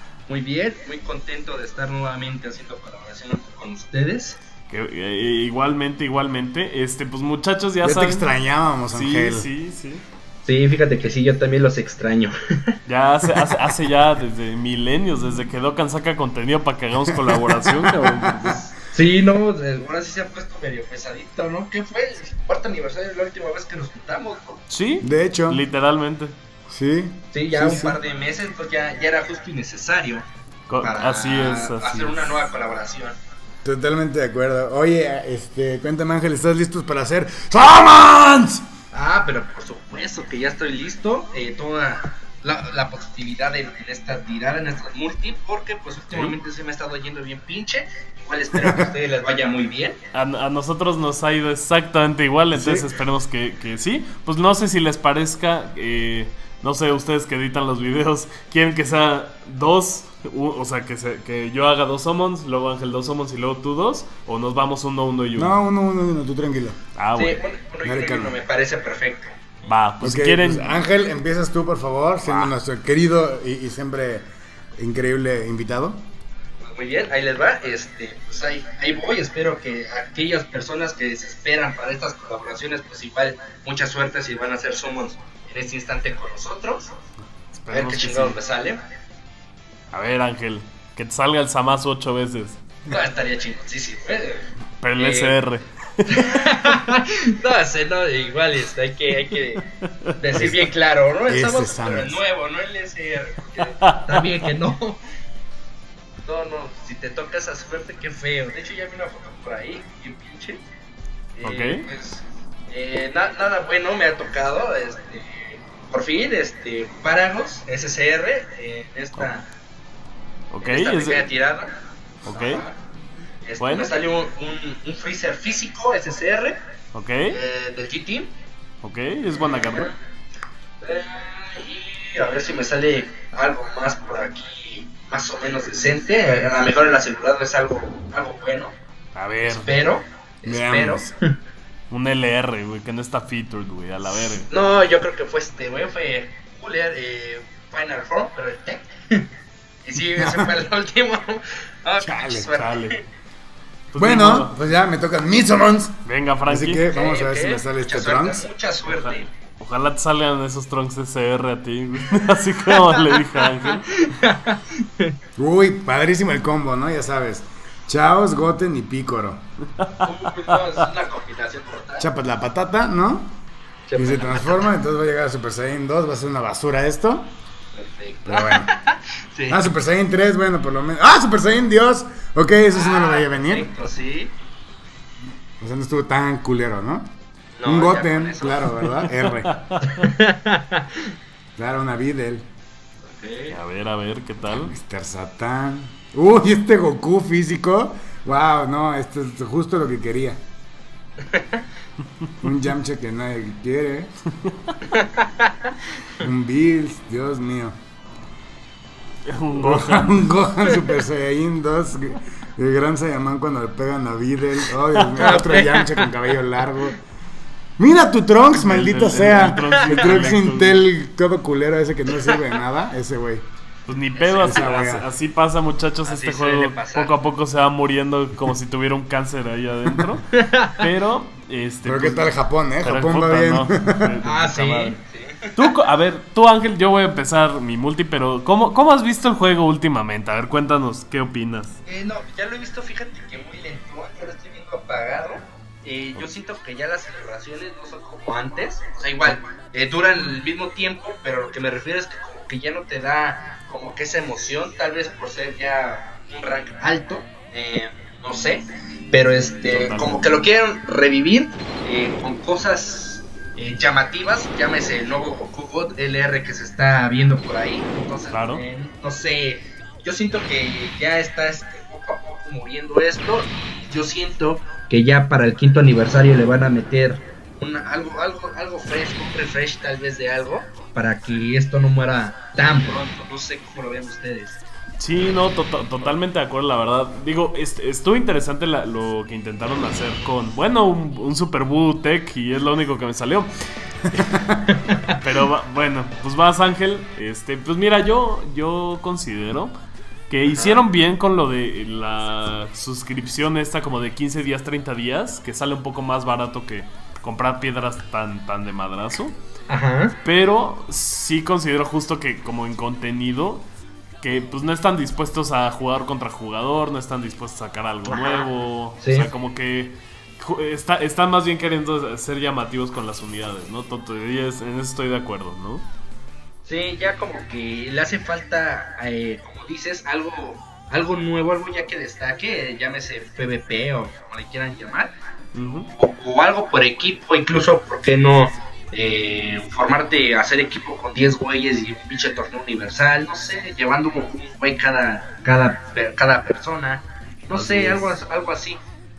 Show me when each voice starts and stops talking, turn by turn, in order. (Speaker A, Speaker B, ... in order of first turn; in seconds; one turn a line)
Speaker A: 0.3-4.4
Speaker B: 4.7-8.3
Speaker C: 7.8-9.5
Speaker B: 8.9-10.0
Speaker A: 10.4-12.3
Speaker B: 12.8-18.6
Speaker C: 17.1-18.6
Speaker A: 18.4-24.6
Speaker B: 24.7-26.3
Speaker C: 25.0-25.6
Speaker C: 26.7-28.0
Speaker A: 27.3-30.2
Speaker B: 30.7-32.4
Speaker A: 30.8-33.1
Speaker C: 33.6-38.6
Speaker A: 38.9-50.0
Speaker B: 46.1-46.4
Speaker C: 48.5-48.9
Speaker B: 50.1-65.5
Speaker C: 52.5-52.9
Speaker C: 65.3-66.8
Speaker B: 67.0-67.4
Speaker A: 67.2-69.4
Speaker C: 67.8-68.3
Speaker B: 69.7-70.7
Speaker C: 70.0-74.2
Speaker B: 72.2-72.5
Speaker C: 74.8-76.0
Speaker A: 76.6-86.9
Speaker B: 87.5-88.4
Speaker A: 87.7-88.8
Speaker B: 89.9-92.6
Speaker A: 92.9-94.5
Speaker B: 94.8-96.5
Speaker A: 95.0-95.4
Speaker A: 96.1-99.6
Speaker B: 100.0-100.5
Speaker A: 100.2-105.0
Speaker C: 100.3-100.6
Speaker C: 101.3-102.2
Speaker B: 103.8-104.3
Speaker A: 106.2-110.6
Speaker A: 111.3-119.5
Speaker B: 111.4-111.8
Speaker B: 120.5-121.2
Speaker A: 120.6-121.7
Speaker B: 122.2-122.6
Speaker A: 122.3-122.8
Speaker A: 123.4-126.6
Speaker B: 123.6-123.9
Speaker B: 126.9-127.4
Speaker A: 127.3-128.3
Speaker B: 128.8-129.9
Speaker A: 129.4-129.9
Speaker A: 130.8-138.7
Speaker B: 139.1-139.7
Speaker A: 139.4-141.2
Speaker C: 140.4-141.1
Speaker B: 141.9-144.5
Speaker A: 144.1-149.3
Speaker A: 149.8-152.9
Speaker C: 150.2-150.6
Speaker C: 152.0-152.5
Speaker B: 152.5-153.0
Speaker B: 153.9-154.5
Speaker C: 153.9-158.5
Speaker B: 156.0-156.8
Speaker A: 156.9-159.3
Speaker B: 158.9-163.9
Speaker A: 162.7-165.2
Speaker C: 165.4-169.4
Speaker A: 170.0-172.1
Speaker C: 172.0-173.3
Speaker A: 173.9-174.7
Speaker C: 173.9-177.3
Speaker A: 177.7-179.6
Speaker C: 178.2-178.7
Speaker C: 179.5-183.7
Speaker A: 182.7-184.3
Speaker C: 185.6-187.1
Speaker A: 187.6-188.7
Speaker C: 187.6-189.5
Speaker B: 189.1-189.8
Speaker A: 189.8-191.1
Speaker C: 191.6-192.4
Speaker A: 193.0-193.6
Speaker B: 193.5-194.7
Speaker C: 194.5-200.4
Speaker A: 201.2-201.6
Speaker C: 202.4-204.1
Speaker A: 204.9-205.7
Speaker C: 206.2-207.8
Speaker B: 209.3-210.3
Speaker C: 209.5-217.0
Speaker A: 210.6-211.0
Speaker B: 214.9-215.4
Speaker A: 215.2-216.9
Speaker C: 217.8-223.4
Speaker B: 218.5-220.8
Speaker A: 219.6-220.3
Speaker A: 222.1-222.4
Speaker B: 223.9-235.0
Speaker A: 224.1-224.7
Speaker C: 224.4-225.1
Speaker A: 226.0-227.1
Speaker A: 230.3-230.8
Speaker C: 231.8-234.2
Speaker A: 234.2-235.7
Speaker B: 235.6-241.8
Speaker A: 241.8-284.6
Speaker B: 259.7-260.3
Speaker B: 268.3-268.6
Speaker B: 285.0-293.5
Speaker C: 294.1-294.7
Speaker A: 294.7-295.2
Speaker B: 295.1-299.7
Speaker B: 300.3-309.3
Speaker A: 300.4-300.8
Speaker A: 309.7-310.1
Speaker B: 310.2-313.6
Speaker B: 314.2-325.8
Speaker A: 318.1-318.4
Speaker A: 319.0-319.3
Speaker A: 326.6-335.1
Speaker B: 335.5-335.9
Speaker A: 335.9-348.8
Speaker B: 347.5-348.1